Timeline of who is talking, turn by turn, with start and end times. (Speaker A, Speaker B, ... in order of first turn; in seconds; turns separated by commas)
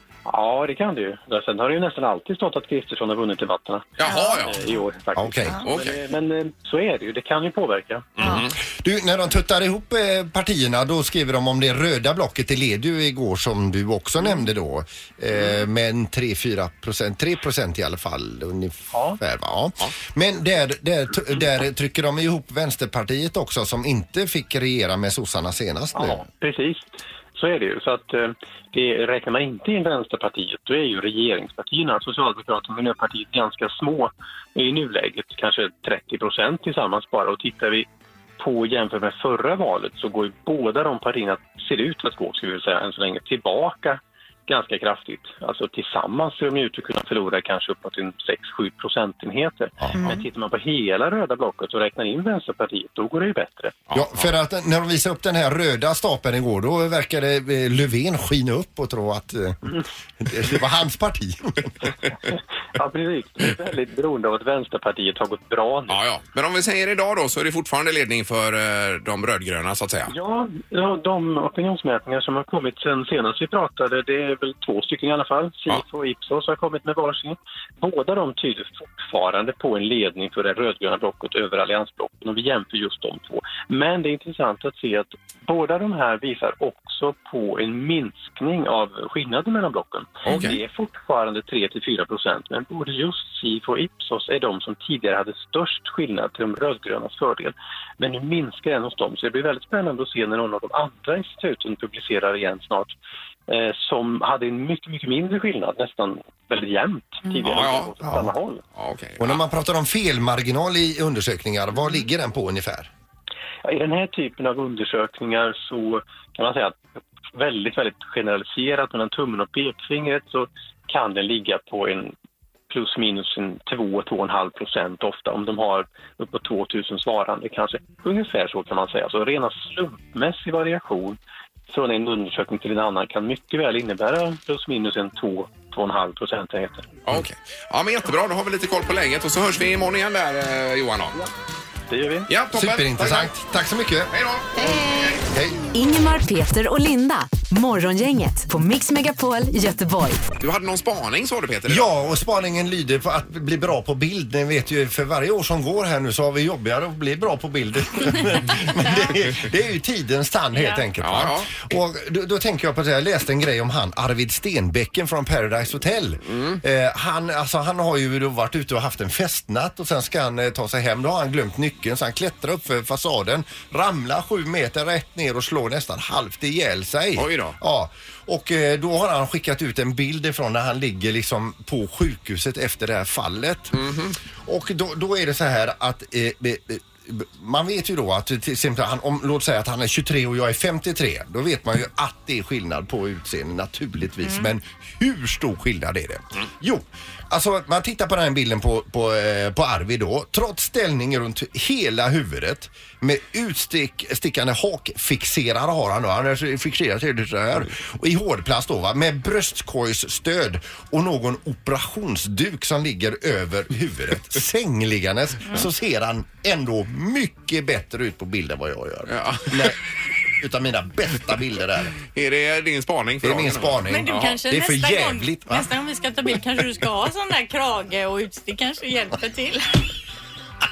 Speaker A: 0.3-8.4, Speaker B: 4.0-4.8, Speaker C: 4.1-4.5, Speaker D: 5.2-5.6, Speaker B: 5.6-6.0, Speaker B: 8.2-8.6, Speaker D: 8.2-26.2, Speaker A: 18.9-19.2, Speaker A: 25.9-37.9, Speaker A: 38.4-53.7, Speaker C: 49.9-50.2, Speaker B: 53.9-54.3, Speaker D: 53.9-61.7, Speaker A: 62.3-66.0, Speaker B: 65.9-70.1, Speaker A: 70.1-103.0, Speaker B: 90.2-90.6, Speaker A: 103.5-108.6, Speaker B: 107.3-108.0, Speaker D: 108.0-108.3, Speaker B: 108.8-109.4, Speaker D: 109.2-112.9, Speaker A: 113.6-116.8, Speaker A: 117.3-122.1, Speaker A: 122.7-131.2, Speaker A: 131.7-137.1, Speaker B: 137.1-141.2, Speaker A: 141.9-142.3, Speaker B: 142.3-143.3, Speaker D: 142.5-144.1, Speaker B: 144.1-145.2, Speaker C: 144.6-145.2, Speaker D: 145.3-145.6, Speaker E: 145.7-150.2, Speaker B: 150.4-151.9, Speaker D: 151.7-183.8, Speaker C: 160.6-160.8, Speaker B: 161.0-161.5, Speaker B: 166.3-166.6, Speaker B: 177.2-177.6, Speaker B: 183.7-184.2, Speaker D: 184.4-219.8, Speaker C: 194.2-194.5, Speaker B: 219.1-219.8, Speaker D: 220.4-222.0, Speaker B: 222.1-224.4, Speaker D: 223.2-225.7, Speaker C: 223.9-229.9